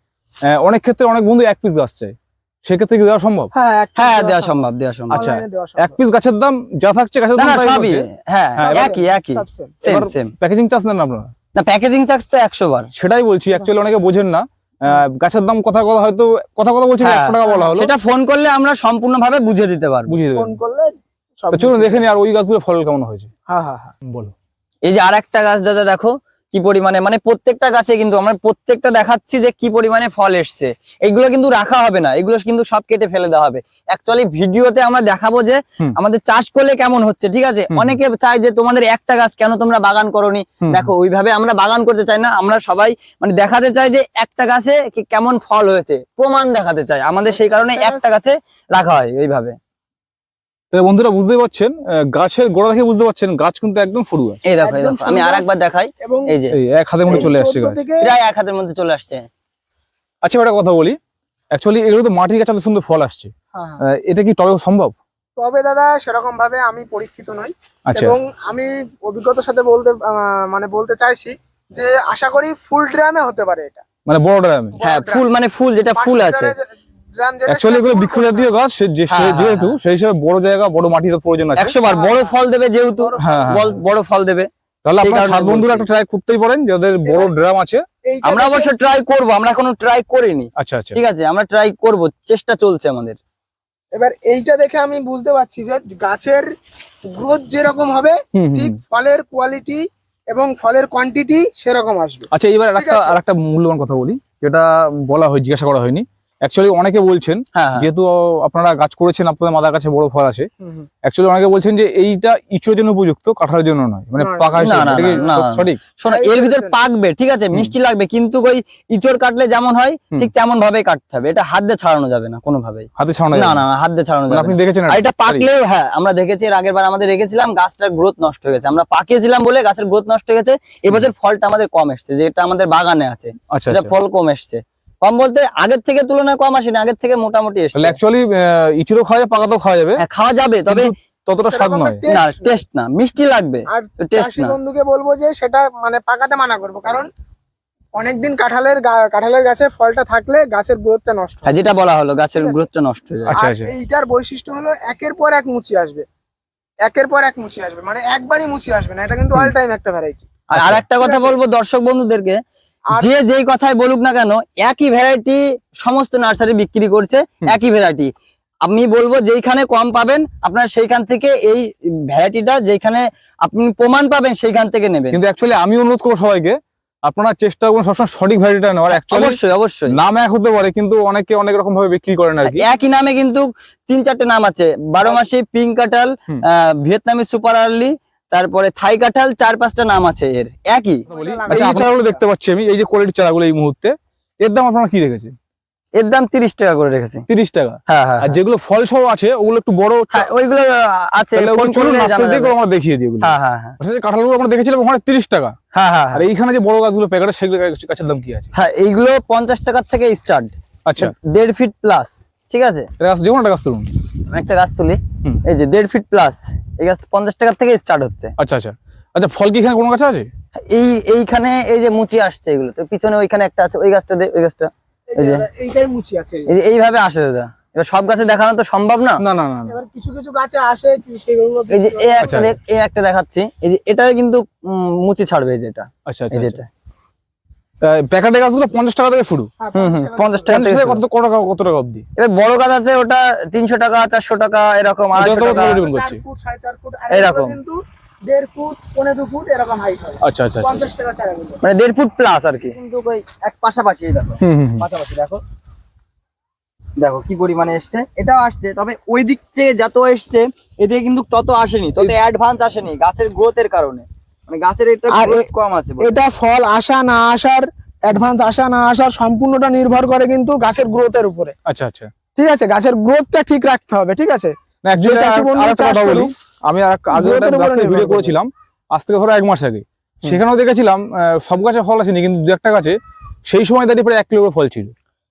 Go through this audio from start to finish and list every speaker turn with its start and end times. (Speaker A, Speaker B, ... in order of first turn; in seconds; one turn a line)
Speaker A: 0.5-3.5
Speaker B: 3.5-6.0
Speaker C: 4.0-5.2
Speaker A: 5.1-8.1
Speaker C: 7.4-10.3
Speaker A: 8.6-9.0
Speaker B: 8.6-9.8
Speaker A: 9.8-11.3
Speaker C: 11.6-12.9
Speaker A: 12.9-17.9
Speaker C: 17.0-20.1
Speaker B: 17.4-17.8
Speaker A: 20.1-20.6
Speaker B: 20.4-22.1
Speaker A: 21.5-23.3
Speaker B: 23.5-23.9
Speaker A: 24.0-24.3
Speaker C: 24.9-49.6
Speaker A: 37.7-38.0
Speaker A: 40.6-40.9
Speaker B: 47.3-48.0
Speaker A: 50.7-54.4
Speaker C: 54.5-56.6
Speaker B: 54.6-55.5
Speaker B: 56.0-56.3
Speaker A: 56.5-57.8
Speaker B: 57.1-58.1
Speaker C: 58.0-59.3
Speaker A: 60.2-61.0
Speaker A: 61.5-63.3
Speaker B: 63.5-63.8
Speaker A: 63.8-65.0
Speaker B: 65.4-73.8
Speaker A: 67.9-68.2
Speaker A: 74.1-74.8
Speaker B: 74.8-75.2
Speaker C: 74.8-76.5
Speaker B: 76.0-78.5
Speaker A: 77.5-81.8
Speaker C: 79.1-79.8
Speaker C: 81.6-84.5
Speaker B: 81.8-82.4
Speaker B: 83.0-83.8
Speaker A: 83.2-83.8
Speaker A: 84.8-87.8
Speaker C: 85.0-85.9
Speaker B: 87.1-87.3
Speaker B: 88.1-88.7
Speaker C: 88.2-93.2
Speaker A: 90.6-91.0
Speaker B: 93.9-96.5
Speaker B: 97.1-103.2
Speaker A: 98.4-98.8
Speaker A: 102.3-110.5
Speaker C: 107.6-107.9
Speaker B: 110.6-110.9
Speaker A: 111.0-115.8
Speaker B: 114.2-115.3
Speaker C: 114.6-138.0
Speaker B: 116.1-116.8
Speaker A: 123.0-123.7
Speaker A: 124.3-125.5
Speaker A: 133.5-133.9
Speaker A: 137.8-140.0
Speaker C: 140.0-140.9
Speaker A: 140.7-142.0
Speaker B: 141.4-142.6
Speaker C: 142.1-144.6
Speaker B: 143.7-147.1
Speaker B: 147.9-151.6
Speaker C: 151.4-153.4
Speaker B: 152.4-152.7
Speaker A: 153.3-153.7
Speaker B: 153.3-156.1
Speaker B: 156.8-160.2
Speaker C: 160.5-162.4
Speaker A: 160.5-160.8
Speaker B: 161.0-161.4
Speaker C: 162.9-168.1
Speaker C: 168.7-175.2
Speaker A: 175.1-179.4
Speaker C: 178.9-180.0
Speaker A: 179.9-182.7
Speaker C: 182.4-191.6
Speaker B: 191.1-192.2
Speaker A: 191.1-195.3
Speaker C: 196.0-197.2
Speaker A: 197.3-200.3
Speaker C: 197.9-198.4
Speaker C: 200.1-202.6
Speaker A: 201.3-205.6
Speaker C: 203.2-203.8
Speaker C: 205.7-206.3
Speaker A: 206.1-208.5
Speaker C: 208.5-212.9
Speaker A: 210.9-211.1
Speaker A: 213.0-213.9
Speaker C: 214.3-218.3
Speaker A: 218.4-220.3
Speaker C: 220.7-225.4
Speaker B: 225.1-226.5
Speaker C: 226.5-229.2
Speaker A: 229.2-229.8
Speaker B: 229.7-232.3
Speaker C: 231.7-236.7
Speaker A: 232.2-232.6
Speaker A: 236.1-236.6
Speaker A: 237.8-239.5
Speaker B: 239.6-240.6
Speaker C: 239.8-241.0
Speaker A: 240.5-242.1
Speaker C: 242.2-245.8
Speaker A: 245.1-246.2
Speaker B: 245.3-251.6
Speaker C: 247.1-247.6
Speaker A: 250.2-250.8
Speaker C: 251.6-255.4
Speaker A: 254.4-254.8
Speaker C: 257.0-266.1
Speaker B: 265.1-265.5
Speaker B: 266.0-271.6
Speaker A: 271.7-272.1
Speaker B: 272.4-276.3
Speaker A: 274.8-284.9
Speaker B: 277.1-278.4